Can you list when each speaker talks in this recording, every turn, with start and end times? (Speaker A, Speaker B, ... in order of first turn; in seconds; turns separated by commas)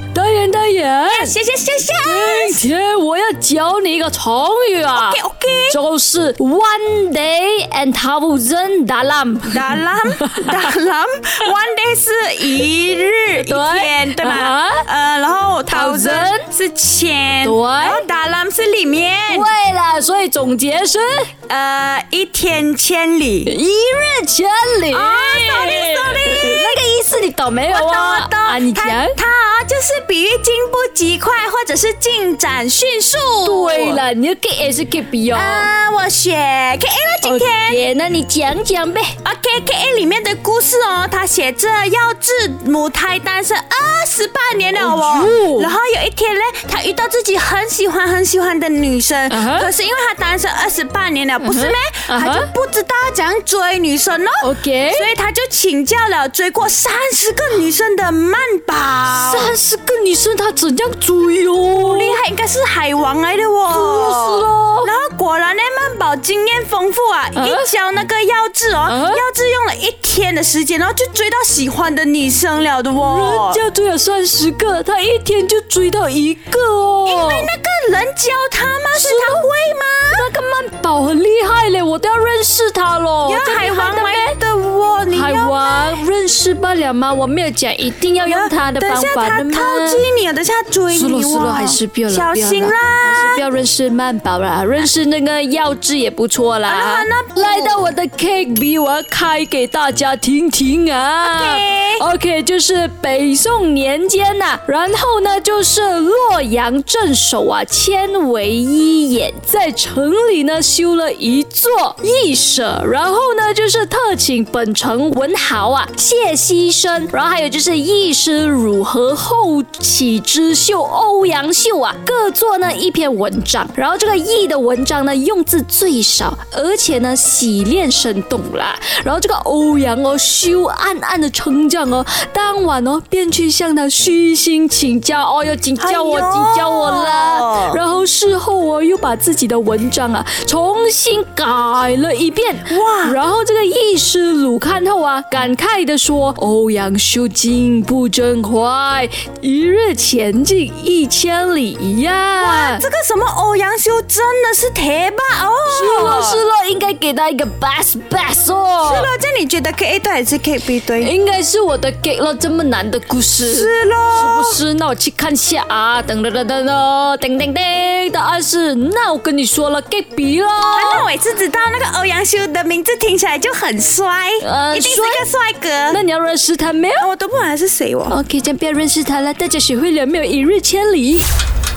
Speaker A: 0.1-1.4, Speaker B: 1.1-2.6, Speaker A: 2.0-5.2, Speaker B: 4.9-5.8, Speaker A: 5.7-9.7, Speaker B: 9.5-19.5, Speaker A: 13.3-14.8, Speaker A: 15.7-16.5, Speaker A: 17.4-18.0, Speaker A: 19.3-21.3, Speaker B: 21.5-23.5, Speaker A: 23.4-29.2, Speaker B: 24.9-26.8, Speaker B: 27.7-34.0, Speaker A: 33.4-35.7, Speaker B: 35.3-37.8, Speaker A: 37.2-39.1, Speaker B: 39.2-59.5, Speaker A: 44.8-45.7, Speaker A: 49.3-49.7, Speaker A: 51.4-52.5, Speaker A: 54.4-55.1, Speaker A: 59.0-62.2, Speaker B: 61.8-73.6, Speaker A: 63.7-64.9, Speaker A: 67.3-67.7, Speaker A: 68.8-69.2, Speaker A: 73.0-77.5, Speaker B: 77.0-80.2, Speaker A: 78.9-79.5, Speaker A: 80.1-84.3, Speaker B: 83.2-86.0, Speaker A: 85.1-90.0, Speaker B: 88.2-93.4, Speaker A: 90.9-152.8, Speaker B: 96.7-97.8, Speaker B: 101.2-102.0, Speaker B: 135.8-137.8, Speaker B: 142.7-143.2, Speaker B: 152.4-156.4, Speaker A: 155.7-159.1, Speaker B: 158.8-161.1, Speaker A: 161.0-171.1, Speaker B: 163.4-164.6, Speaker B: 170.7-176.0, Speaker A: 174.4-175.3, Speaker A: 175.9-177.1, Speaker B: 177.0-178.2, Speaker A: 178.1-181.3